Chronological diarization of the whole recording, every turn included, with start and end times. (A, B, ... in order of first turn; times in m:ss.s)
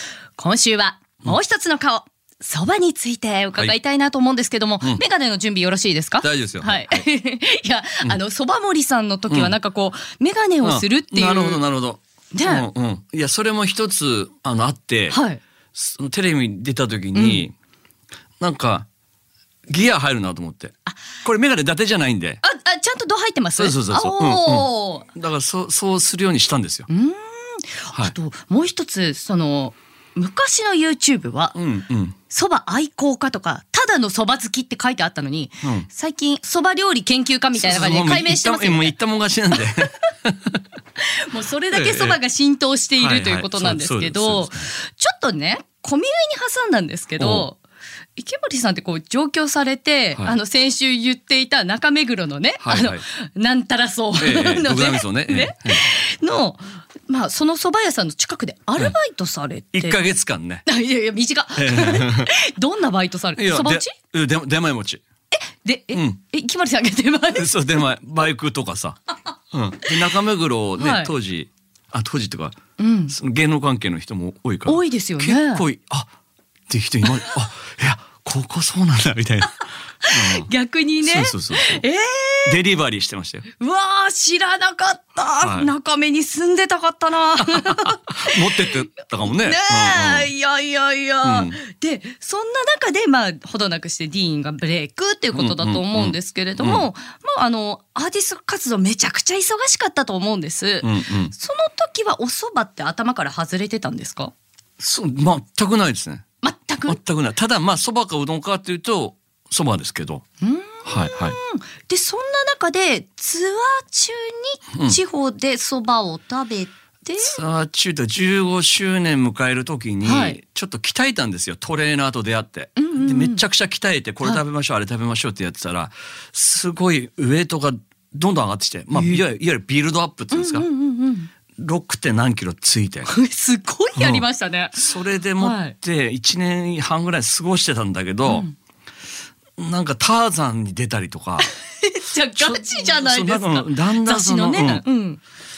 0:00.4-0:11.6 A
0:06.2-0:07.0 B
0:10.6-0:15.2 B
0:12.3-0:12.7 A
0:15.1-0:15.4 A
0:15.8-0:17.5 B
0:17.1-0:17.4 A
0:18.4-0:18.9 B
0:19.7-0:20.7 B
0:21.2-0:22.4 B
0:22.4-0:25.1 A
0:23.6-0:26.9 B
0:26.9-0:31.6 A
0:31.6-0:32.2 B
0:32.3-0:39.0 A
0:35.6-0:35.9 B
0:37.6-0:40.6 B
0:39.5-0:39.9 A
0:41.0-0:47.6 A
0:41.7-0:42.2 B
0:43.0-0:44.7 B
0:47.2-0:47.5 B
0:48.2-1:00.0 A
0:52.6-0:53.0 B
0:54.2-0:55.8 B
0:59.7-1:00.6 B
1:00.6-1:03.9 A
1:01.6-1:02.3 B
1:03.4-1:05.0 B
1:05.3-1:07.5 A
1:05.9-1:06.2 B
1:07.4-1:09.0 B
1:09.5-1:12.6 B
1:10.8-1:11.1 A
1:12.8-1:13.2 A
1:13.1-1:16.1 B
1:14.7-1:15.6 A
1:16.7-1:20.5 B
1:20.0-1:22.6 A
1:21.0-1:21.8 B
1:22.5-1:23.5 B
1:23.6-1:44.3 A
1:25.4-1:25.7 B
1:27.5-1:30.3 B
1:31.2-1:31.6 B
1:35.3-1:36.8 B
1:40.8-1:41.3 B
1:44.8-1:46.2 B
1:46.4-1:47.0 A
1:46.9-1:50.2 B
1:50.4-1:57.4 A
1:50.8-1:51.4 B
1:57.2-2:10.7 B
2:00.0-2:00.4 A
2:02.8-2:03.4 A
2:08.9-2:09.2 A
2:10.3-2:11.3 A
2:11.6-2:13.1 B
2:13.1-2:14.8 A
2:14.0-2:14.2 B
2:14.8-2:18.5 B
2:15.4-2:15.8 A
2:18.3-2:18.5 A
2:19.6-2:21.5 B
2:21.4-2:25.2 A
2:22.4-2:24.8 B